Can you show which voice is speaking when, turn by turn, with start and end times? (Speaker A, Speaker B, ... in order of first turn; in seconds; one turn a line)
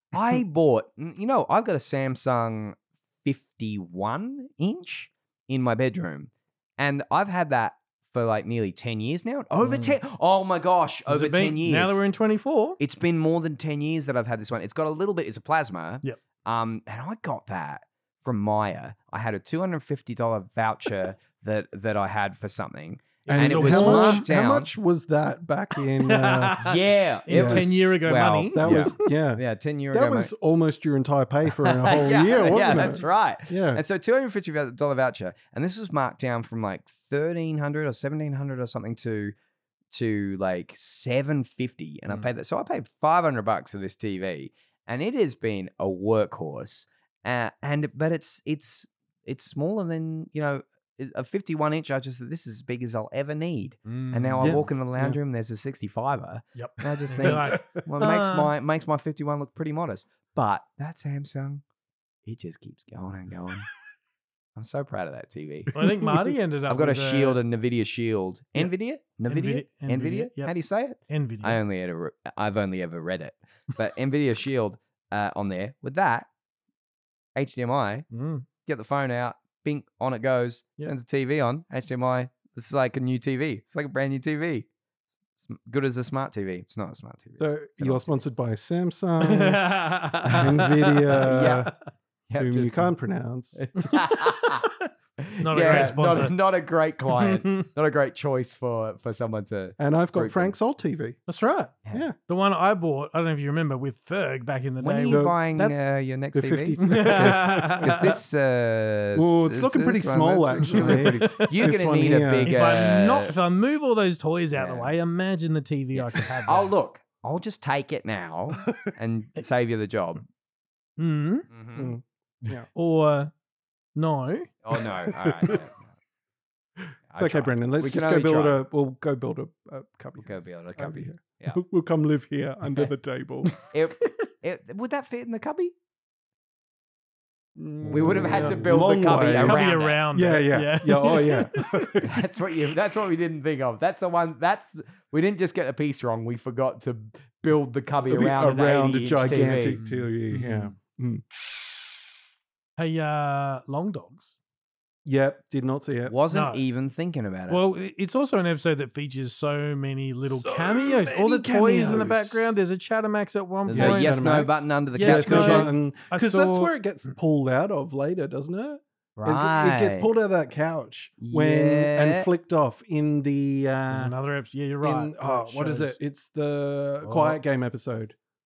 Speaker A: 0.1-12.0
Speaker B: 9.6-9.9
Speaker B: 11.1-12.8
Speaker A: 12.8-24.7
Speaker B: 23.3-24.3
Speaker C: 23.3-26.7
Speaker B: 26.0-29.0
Speaker A: 26.6-30.3
Speaker C: 27.3-27.7
Speaker C: 28.5-33.8
Speaker A: 31.6-39.3
Speaker B: 32.7-33.0
Speaker A: 39.9-61.6
Speaker B: 53.9-54.6
Speaker C: 54.4-55.2
Speaker B: 56.6-58.5
Speaker C: 57.1-57.8
Speaker A: 62.3-63.7
Speaker A: 64.6-65.8
Speaker B: 65.7-67.4
Speaker A: 66.7-76.3
Speaker B: 69.3-70.5
Speaker B: 71.1-71.6
Speaker A: 77.4-78.1
Speaker B: 78.1-78.5
Speaker A: 78.7-84.7
Speaker A: 85.4-88.2
Speaker C: 87.4-89.7
Speaker B: 89.2-91.2
Speaker C: 90.3-91.7
Speaker A: 91.2-91.7
Speaker A: 92.3-92.9
Speaker C: 92.4-93.7
Speaker A: 93.6-100.5
Speaker B: 93.8-94.9
Speaker B: 95.4-96.3
Speaker C: 95.7-95.9
Speaker B: 97.2-97.7
Speaker C: 99.8-101.2
Speaker B: 101.3-101.7
Speaker C: 101.9-102.2
Speaker B: 102.3-105.3
Speaker A: 104.8-113.3
Speaker C: 105.1-105.7
Speaker C: 106.3-108.2
Speaker B: 106.8-108.2
Speaker C: 109.2-112.8
Speaker B: 110.7-111.5
Speaker B: 112.5-116.7
Speaker A: 114.5-114.9
Speaker A: 116.0-120.2
Speaker B: 121.0-121.5
Speaker A: 121.5-122.0
Speaker C: 121.8-122.7
Speaker B: 122.7-123.3
Speaker B: 124.0-124.5
Speaker A: 124.6-125.9
Speaker C: 125.1-125.7
Speaker C: 126.8-133.5
Speaker A: 127.1-128.6
Speaker A: 130.2-131.6
Speaker A: 133.7-135.7
Speaker C: 137.6-142.2
Speaker B: 137.8-138.6
Speaker A: 137.9-140.0
Speaker B: 139.4-142.0
Speaker A: 142.0-149.8
Speaker C: 148.1-151.2
Speaker B: 149.8-150.7
Speaker B: 152.8-154.3
Speaker C: 155.1-156.2
Speaker A: 156.1-157.6
Speaker B: 156.3-156.6
Speaker B: 157.5-164.2
Speaker C: 160.3-162.5
Speaker A: 163.7-165.7
Speaker C: 163.7-174.1
Speaker B: 164.9-166.7
Speaker A: 169.2-170.1
Speaker A: 171.2-172.3
Speaker B: 173.9-176.0
Speaker C: 174.8-178.2
Speaker B: 177.0-177.4